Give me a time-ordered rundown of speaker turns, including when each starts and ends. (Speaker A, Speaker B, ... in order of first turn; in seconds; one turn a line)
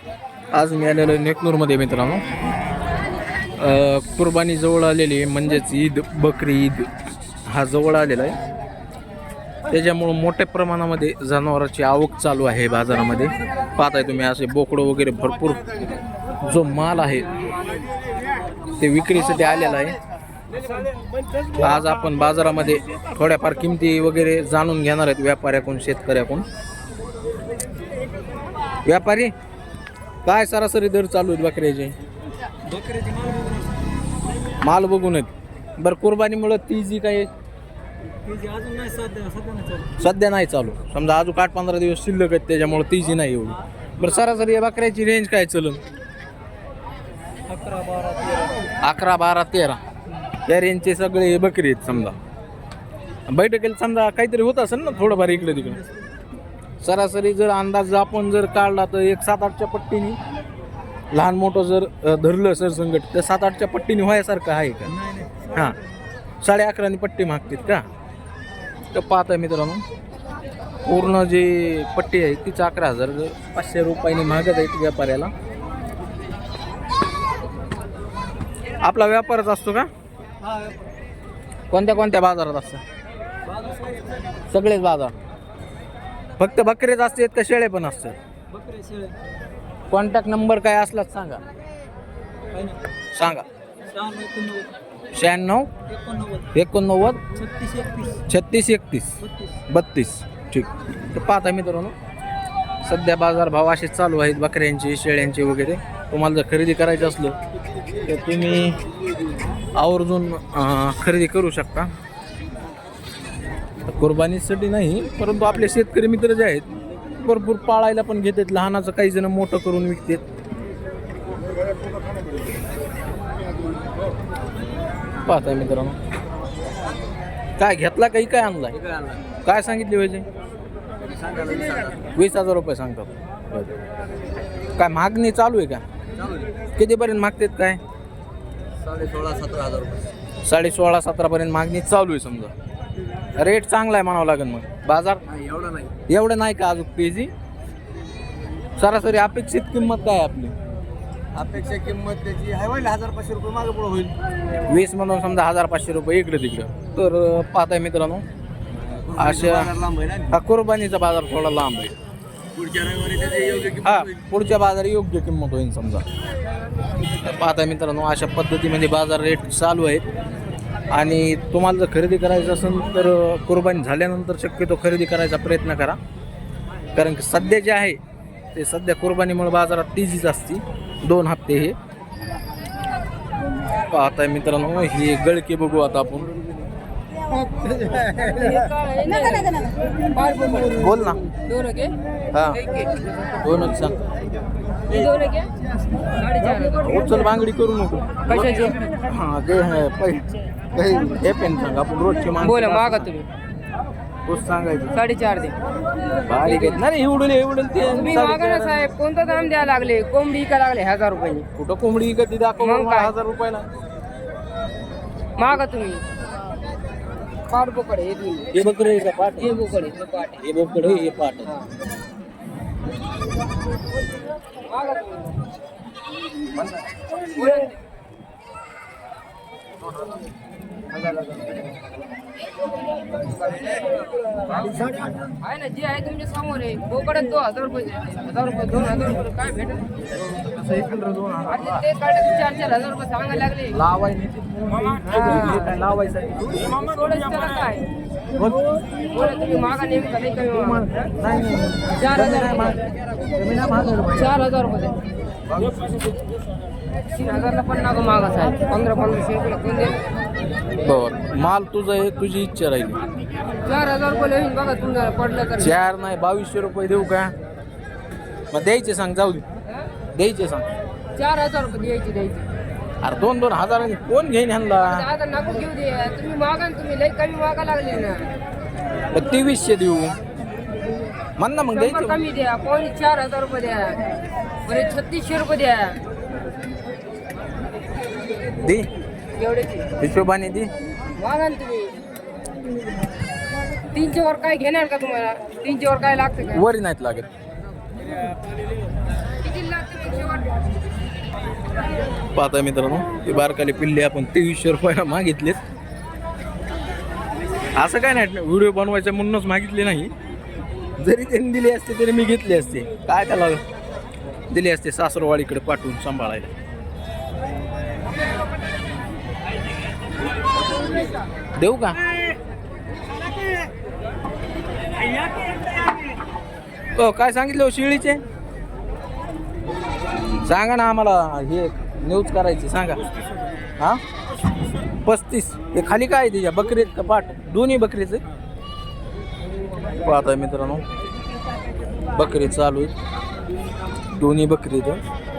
Speaker A: 0.5-2.2
Speaker A: 3.6-6.9
Speaker A: 7.5-8.4
Speaker A: 9.7-15.7
Speaker A: 16.4-17.3
Speaker A: 18.8-20.0
Speaker A: 21.6-26.4
Speaker A: 28.8-29.3
Speaker A: 30.2-31.9
Speaker B: 32.6-33.7
Speaker A: 34.6-37.3
Speaker B: 38.2-39.9
Speaker A: 40.0-45.8
Speaker B: 47.5-48.6
Speaker A: 48.8-49.8
Speaker A: 50.5-52.2
Speaker A: 53.3-55.8
Speaker A: 56.8-60.2
Speaker A: 61.1-64.9
Speaker A: 65.5-65.8
Speaker A: 66.4-67.8
Speaker A: 68.9-69.8
Speaker A: 70.8-75.3
Speaker A: 78.8-79.9
Speaker B: 80.5-80.7
Speaker A: 81.7-82.8
Speaker B: 83.5-84.0
Speaker A: 84.5-85.1
Speaker A: 86.4-88.1
Speaker B: 88.5-89.2
Speaker A: 89.9-91.4
Speaker B: 92.5-92.8
Speaker A: 93.1-93.4
Speaker B: 93.9-94.7
Speaker A: 95.1-95.7
Speaker B: 95.9-96.5
Speaker A: 96.5-97.2
Speaker B: 97.3-98.2
Speaker A: 98.2-101.9
Speaker A: 102.8-107.4
Speaker A: 108.0-108.8
Speaker A: 109.8-111.9
Speaker A: 113.9-116.7
Speaker A: 117.2-120.2
Speaker A: 125.2-126.0
Speaker A: 127.6-128.9
Speaker A: 129.4-130.2
Speaker B: 131.0-132.1
Speaker A: 132.1-133.8
Speaker A: 134.8-135.8
Speaker A: 136.8-137.8
Speaker B: 138.8-140.1
Speaker A: 140.4-142.5
Speaker A: 143.3-145.2
Speaker B: 145.3-145.9
Speaker A: 146.1-147.3
Speaker A: 148.8-150.5
Speaker B: 151.3-154.2
Speaker A: 154.7-158.2
Speaker A: 159.1-159.8
Speaker B: 159.7-160.3
Speaker A: 160.3-161.9
Speaker B: 162.6-163.9
Speaker A: 163.8-166.0
Speaker A: 167.2-170.0
Speaker A: 170.9-176.0
Speaker A: 176.9-178.0
Speaker A: 178.5-181.8
Speaker A: 183.9-186.3
Speaker C: 187.6-191.9
Speaker A: 190.8-191.2
Speaker A: 192.3-192.6
Speaker C: 192.5-192.9
Speaker A: 193.4-193.9
Speaker C: 194.9-195.5
Speaker C: 196.1-197.2
Speaker A: 196.8-198.2
Speaker C: 198.2-198.8
Speaker A: 199.0-203.1
Speaker C: 202.4-203.3
Speaker A: 204.3-205.0
Speaker C: 204.9-205.6
Speaker A: 206.2-208.9
Speaker C: 206.4-206.8
Speaker C: 207.8-211.5
Speaker A: 211.6-213.7
Speaker C: 212.6-213.1
Speaker C: 215.4-216.0
Speaker C: 217.5-218.7
Speaker A: 218.5-219.6
Speaker C: 219.4-220.4
Speaker A: 220.4-221.5
Speaker C: 224.6-225.4
Speaker C: 227.3-227.8
Speaker C: 230.9-231.6
Speaker C: 233.1-239.9
Speaker A: 240.2-241.8
Speaker C: 241.5-243.8
Speaker A: 243.7-246.7
Speaker C: 245.1-245.7
Speaker C: 246.6-247.9
Speaker A: 248.4-248.6
Speaker C: 249.1-250.9
Speaker A: 250.5-254.3
Speaker C: 251.9-252.8
Speaker C: 254.1-255.0
Speaker C: 257.1-260.0
Speaker A: 260.8-263.0
Speaker C: 263.6-265.8
Speaker A: 265.6-267.3
Speaker A: 268.5-269.4
Speaker A: 270.1-270.7
Speaker C: 271.1-272.5
Speaker A: 273.0-275.0
Speaker C: 274.8-278.3
Speaker A: 279.1-280.2
Speaker A: 281.4-282.2
Speaker C: 281.7-286.0
Speaker A: 288.6-288.9
Speaker C: 289.3-289.9
Speaker A: 290.0-290.7
Speaker C: 291.1-292.0
Speaker C: 293.9-296.6
Speaker A: 296.5-297.3
Speaker C: 299.4-300.6
Speaker A: 302.3-305.6
Speaker A: 307.8-310.1
Speaker A: 311.0-313.6
Speaker A: 314.5-316.5
Speaker A: 321.6-322.0
Speaker A: 326.9-328.2
Speaker A: 330.4-333.0
Speaker A: 335.0-338.2
Speaker A: 340.0-340.8
Speaker A: 342.1-342.9
Speaker A: 344.1-345.0